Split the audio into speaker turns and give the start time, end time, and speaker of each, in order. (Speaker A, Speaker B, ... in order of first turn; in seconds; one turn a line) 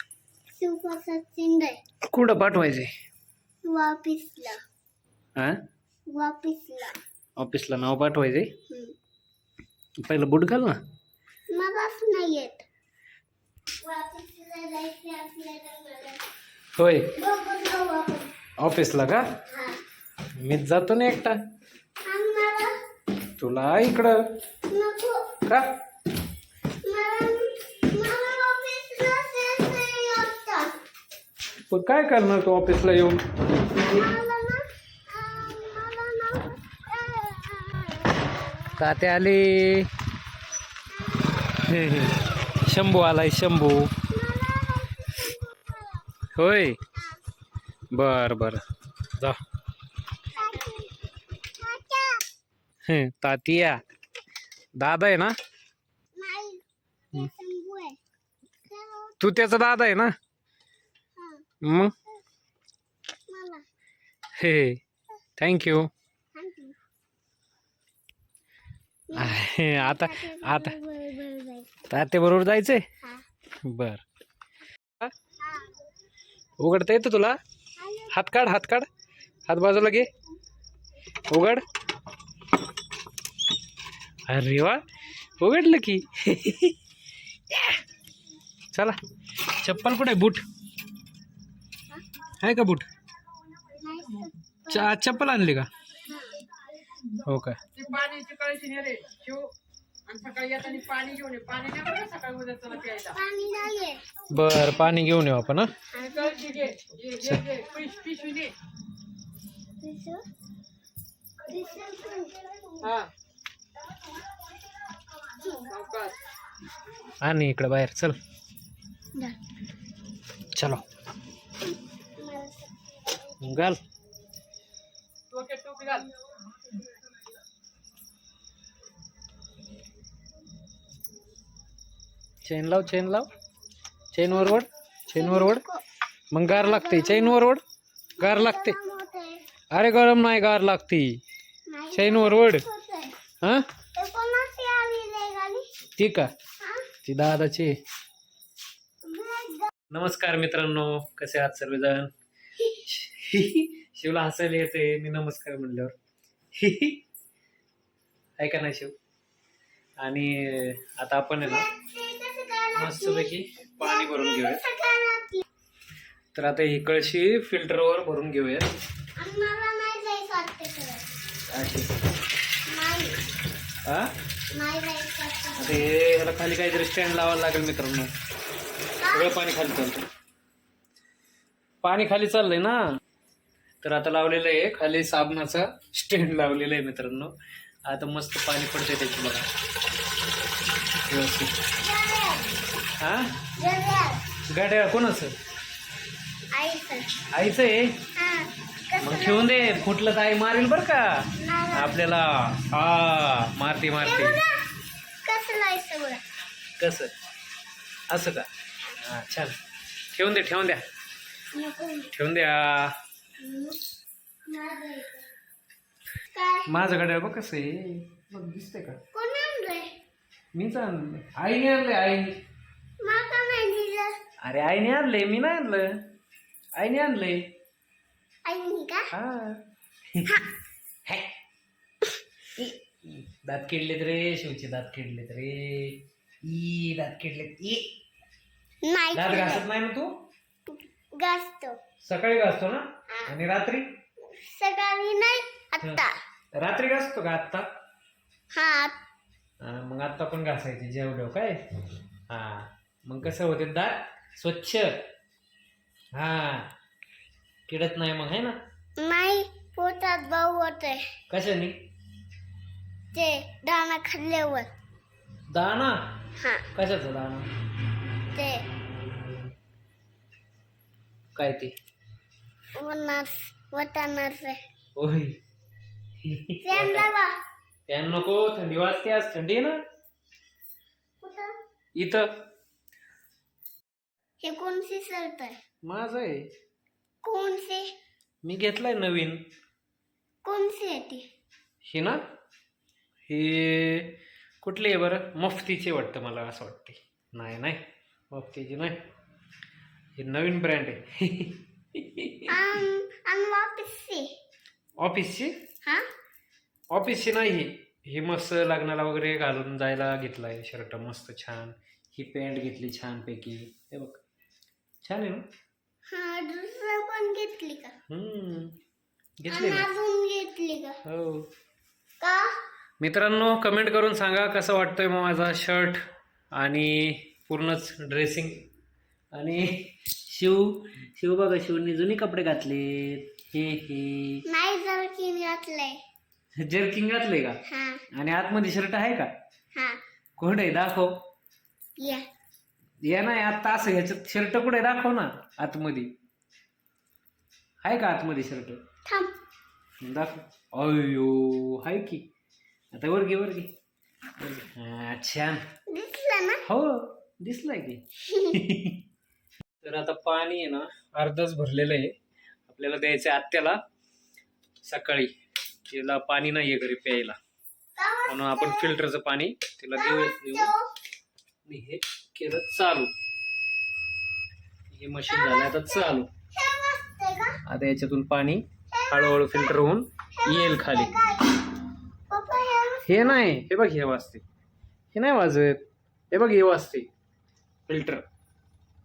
Speaker A: 0.6-1.8
Speaker B: 2.1-2.9
Speaker A: 3.6-4.6
Speaker A: 6.1-7.0
Speaker B: 7.4-8.5
Speaker A: 8.7-8.9
Speaker B: 10.0-10.8
Speaker A: 11.5-12.7
Speaker A: 13.8-16.2
Speaker B: 16.8-17.1
Speaker A: 17.1-18.3
Speaker B: 18.6-19.2
Speaker A: 19.5-19.8
Speaker B: 20.4-21.4
Speaker A: 22.1-22.7
Speaker B: 23.4-24.2
Speaker A: 24.7-25.3
Speaker B: 25.5-25.7
Speaker A: 26.8-30.7
Speaker B: 31.7-33.2
Speaker A: 33.9-38.8
Speaker B: 38.8-39.9
Speaker A: 40.9-41.6
Speaker B: 41.6-43.9
Speaker A: 44.1-46.1
Speaker B: 46.4-46.8
Speaker B: 47.9-48.6
Speaker A: 50.3-52.2
Speaker B: 52.9-53.8
Speaker B: 54.8-55.3
Speaker A: 56.1-58.0
Speaker A: 58.7-59.4
Speaker B: 59.2-60.1
Speaker A: 61.2-61.5
Speaker B: 61.6-61.9
Speaker A: 63.3-63.6
Speaker B: 64.4-64.8
Speaker B: 65.4-65.9
Speaker A: 66.3-66.8
Speaker A: 69.1-71.7
Speaker B: 69.2-70.8
Speaker B: 71.9-72.8
Speaker B: 73.7-74.0
Speaker A: 75.4-75.8
Speaker B: 76.6-77.4
Speaker A: 77.8-78.1
Speaker B: 78.1-78.9
Speaker B: 79.5-80.1
Speaker B: 81.3-81.7
Speaker B: 84.3-84.8
Speaker B: 85.4-86.8
Speaker B: 87.5-87.8
Speaker B: 88.7-90.5
Speaker B: 92.4-92.9
Speaker A: 93.7-94.9
Speaker B: 94.7-95.7
Speaker A: 96.1-96.4
Speaker B: 97.1-97.6
Speaker C: 97.8-99.5
Speaker C: 100.1-102.8
Speaker A: 102.6-104.1
Speaker B: 104.3-105.7
Speaker A: 105.9-106.9
Speaker B: 107.2-107.6
Speaker C: 107.3-108.5
Speaker A: 107.5-108.2
Speaker A: 109.8-110.2
Speaker A: 111.4-113.1
Speaker A: 115.2-116.2
Speaker B: 117.2-118.2
Speaker B: 120.5-120.8
Speaker A: 122.2-123.5
Speaker B: 123.4-123.8
Speaker B: 132.4-133.3
Speaker B: 134.1-135.6
Speaker A: 135.1-135.8
Speaker B: 136.3-137.6
Speaker A: 136.5-137.4
Speaker A: 138.2-139.5
Speaker B: 138.2-138.8
Speaker B: 139.7-141.2
Speaker A: 141.7-143.2
Speaker B: 141.9-142.6
Speaker B: 143.4-143.7
Speaker A: 143.9-145.7
Speaker B: 146.0-146.3
Speaker A: 146.6-146.9
Speaker B: 147.0-147.8
Speaker A: 149.0-149.7
Speaker B: 149.9-152.1
Speaker B: 152.8-155.9
Speaker B: 156.6-157.0
Speaker B: 158.4-158.9
Speaker B: 160.0-161.7
Speaker A: 161.4-165.4
Speaker B: 162.8-164.6
Speaker B: 166.3-168.7
Speaker A: 169.2-171.1
Speaker B: 171.5-171.9
Speaker A: 172.7-173.2
Speaker B: 173.8-174.1
Speaker A: 174.5-175.8
Speaker B: 175.6-178.1
Speaker A: 179.0-179.4
Speaker B: 179.1-180.1
Speaker B: 181.8-182.8
Speaker B: 183.8-187.3
Speaker B: 187.9-189.5
Speaker B: 191.1-191.6
Speaker A: 191.8-192.5
Speaker B: 193.0-193.3
Speaker A: 193.6-194.2
Speaker B: 194.5-195.3
Speaker A: 196.5-197.1
Speaker B: 197.3-198.0
Speaker A: 198.2-199.9
Speaker B: 199.0-204.4
Speaker A: 201.4-202.0
Speaker A: 204.0-204.7
Speaker A: 205.2-206.2
Speaker B: 206.8-207.1
Speaker B: 208.1-208.5
Speaker B: 209.0-209.6
Speaker B: 210.1-210.8
Speaker A: 211.5-212.1
Speaker B: 212.1-213.0
Speaker A: 213.4-213.8
Speaker A: 214.5-215.2
Speaker A: 216.3-216.7
Speaker B: 216.7-219.0
Speaker A: 219.1-219.9
Speaker B: 220.5-222.4
Speaker A: 223.0-224.1
Speaker B: 224.4-226.0
Speaker B: 226.8-227.5
Speaker A: 228.4-229.1
Speaker B: 229.1-229.6
Speaker B: 230.1-230.4
Speaker B: 231.1-231.3
Speaker B: 232.6-237.9
Speaker A: 238.8-239.6
Speaker B: 239.1-240.1
Speaker A: 240.7-241.8
Speaker B: 242.0-243.9
Speaker A: 244.2-246.2
Speaker B: 246.6-247.7
Speaker A: 248.5-249.0
Speaker B: 249.6-251.7
Speaker B: 252.3-255.0
Speaker B: 256.1-256.7
Speaker B: 257.7-258.6
Speaker A: 259.0-261.1
Speaker B: 261.3-261.8
Speaker A: 263.1-264.7
Speaker B: 265.5-266.1
Speaker A: 266.4-266.7
Speaker B: 266.8-267.5
Speaker A: 268.3-268.7
Speaker B: 271.4-271.8
Speaker A: 272.8-274.6
Speaker B: 275.0-275.4
Speaker B: 276.2-277.1
Speaker A: 276.6-277.4
Speaker B: 277.9-279.8
Speaker A: 281.2-281.5
Speaker B: 282.0-282.3
Speaker A: 284.4-285.6
Speaker B: 285.9-286.5
Speaker A: 287.2-287.9
Speaker B: 288.4-289.4
Speaker A: 290.4-291.2
Speaker B: 291.9-292.2
Speaker B: 293.3-297.8
Speaker B: 298.3-299.0
Speaker B: 300.2-302.8
Speaker A: 302.5-304.3
Speaker B: 305.0-305.6
Speaker B: 306.9-314.2
Speaker B: 315.0-315.4
Speaker A: 316.1-318.0
Speaker B: 318.1-318.8
Speaker B: 319.4-319.9
Speaker A: 319.5-321.0
Speaker B: 321.0-321.5
Speaker A: 322.2-322.6
Speaker B: 323.0-326.0
Speaker B: 326.6-328.7
Speaker B: 329.4-334.4
Speaker A: 334.5-336.0
Speaker B: 336.6-337.6
Speaker A: 337.7-338.0
Speaker B: 338.1-339.3
Speaker A: 339.7-340.0
Speaker B: 340.4-341.2
Speaker A: 342.0-342.2
Speaker B: 343.0-346.1
Speaker B: 347.8-348.8
Speaker A: 349.1-349.4
Speaker B: 350.0-352.2
Speaker B: 352.9-353.7
Speaker B: 354.4-355.6
Speaker A: 355.9-356.6
Speaker B: 356.6-359.0
Speaker A: 358.3-358.6
Speaker B: 359.8-362.2
Speaker B: 362.7-363.8
Speaker B: 364.8-365.3
Speaker B: 365.9-367.4
Speaker A: 368.0-369.0
Speaker B: 368.3-370.7
Speaker A: 370.0-370.9
Speaker B: 371.7-373.1
Speaker B: 374.9-376.3
Speaker A: 375.3-377.6
Speaker B: 377.7-381.1
Speaker A: 378.9-379.8
Speaker A: 380.3-381.6
Speaker A: 382.3-383.4
Speaker B: 383.1-384.4
Speaker B: 385.1-387.1
Speaker B: 387.9-388.2